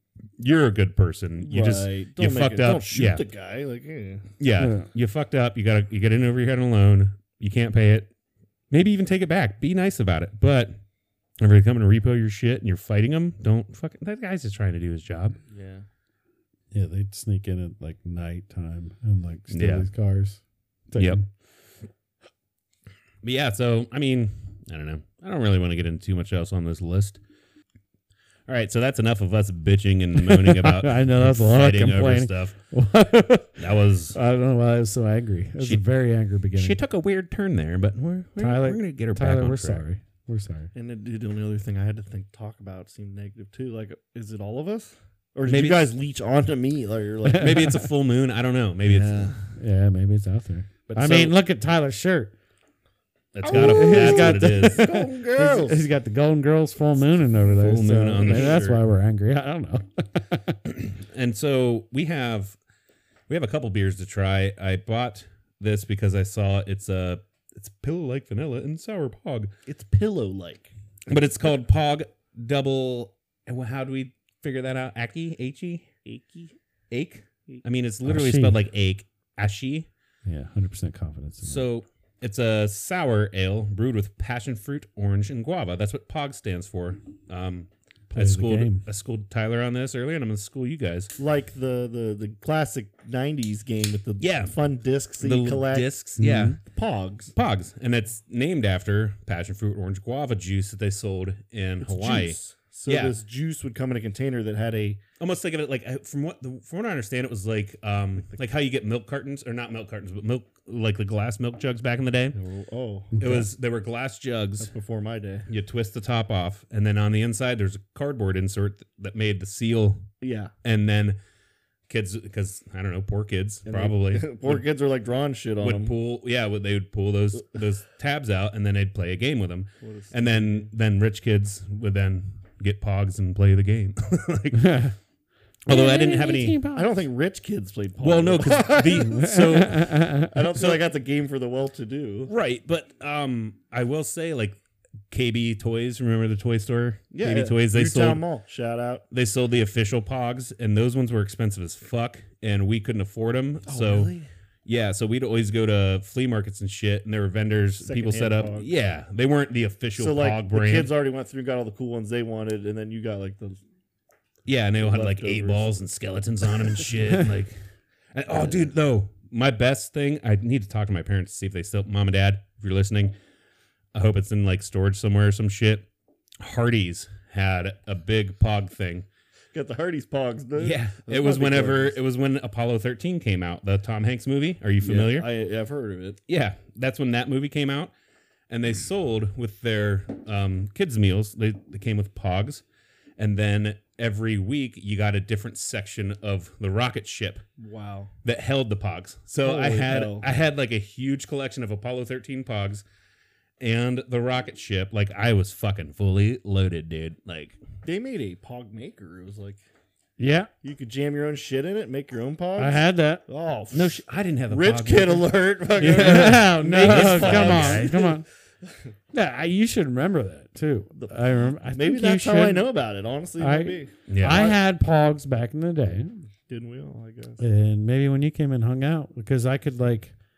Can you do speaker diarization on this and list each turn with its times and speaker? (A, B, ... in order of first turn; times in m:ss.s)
0:00.4-0:03.2 A
0:01.4-0:04.3 B
0:04.4-0:08.1 A
0:04.6-0:04.9 C
0:08.7-0:10.8 A
0:11.4-0:15.4 A
0:15.5-0:15.8 B
0:16.7-0:21.3 C
0:19.5-0:19.9 A
0:23.2-0:27.2 A
0:28.5-0:32.5 A
0:30.2-0:36.8 C
0:33.6-0:34.2 A
0:36.5-0:39.8 A
0:38.4-0:40.7 C
0:40.7-0:47.8 B
0:45.5-0:45.9 A
0:47.2-0:47.9 C
0:47.4-0:49.3 A
0:48.8-0:49.5 B
0:49.5-0:52.3 C
0:50.9-0:51.4 A
0:53.3-0:54.8 A
0:53.4-0:55.8 B
0:53.4-1:00.6 C
0:57.4-0:58.8 A
0:58.1-0:58.7 B
1:00.6-1:02.6 A
1:03.3-1:09.5 A
1:09.6-1:10.7 B
1:11.1-1:15.9 A
1:16.0-1:16.5 B
1:16.9-1:19.9 A
1:18.0-1:18.6 C
1:20.2-1:21.7 C
1:21.4-1:31.1 A
1:28.1-1:28.8 C
1:31.2-1:35.9 B
1:34.2-1:34.5 A
1:35.2-1:36.6 A
1:36.2-1:36.6 C
1:36.6-1:37.3 B
1:37.3-1:43.2 A
1:41.8-1:45.0 B
1:45.2-1:52.4 A
1:52.3-1:53.3 B
1:53.2-1:53.4 C
1:53.2-1:54.7 A
1:54.6-1:55.5 B
1:55.5-2:00.1 A
2:00.2-2:00.5 B
2:00.6-2:01.2 A
2:01.9-2:04.6 A
2:03.6-2:06.0 B
2:05.6-2:14.9 A
2:09.8-2:10.7 B
2:14.5-2:14.9 C
2:15.6-2:16.6 A
2:15.7-2:16.9 C
2:16.7-2:19.1 B
2:18.0-2:20.8 A
2:18.4-2:20.3 C
2:20.2-2:22.3 B
2:22.3-2:24.6 A
2:25.1-2:28.2 A
2:27.1-2:29.0 B
2:29.1-2:34.1 A
2:33.7-2:34.3 B
2:34.6-2:40.9 A
2:37.8-2:38.7 B
2:40.0-2:43.6 B
2:44.4-2:47.6 A
2:44.8-2:45.7 B
2:48.1-2:53.1 A
2:53.9-2:55.9 A
2:56.4-2:59.0 A
2:59.5-3:02.0 B
3:00.6-3:05.3 A
3:04.8-3:06.2 B
3:06.3-3:07.9 A
3:08.5-3:12.6 A
3:13.2-3:17.4 A
3:17.6-3:18.1 B
3:18.2-3:22.8 A
3:19.4-3:20.3 B
3:23.6-3:27.6 A
3:27.8-3:29.6 B
3:30.2-3:30.5 C
3:30.6-3:34.0 B
3:32.6-3:33.2 C
3:33.7-3:38.0 A
3:34.5-3:38.9 B
3:35.8-3:38.2 C
3:39.1-3:42.7 C
3:41.0-3:44.6 B
3:43.4-3:46.2 C
3:44.1-3:44.5 A
3:46.5-3:47.4 B
3:47.4-3:50.1 C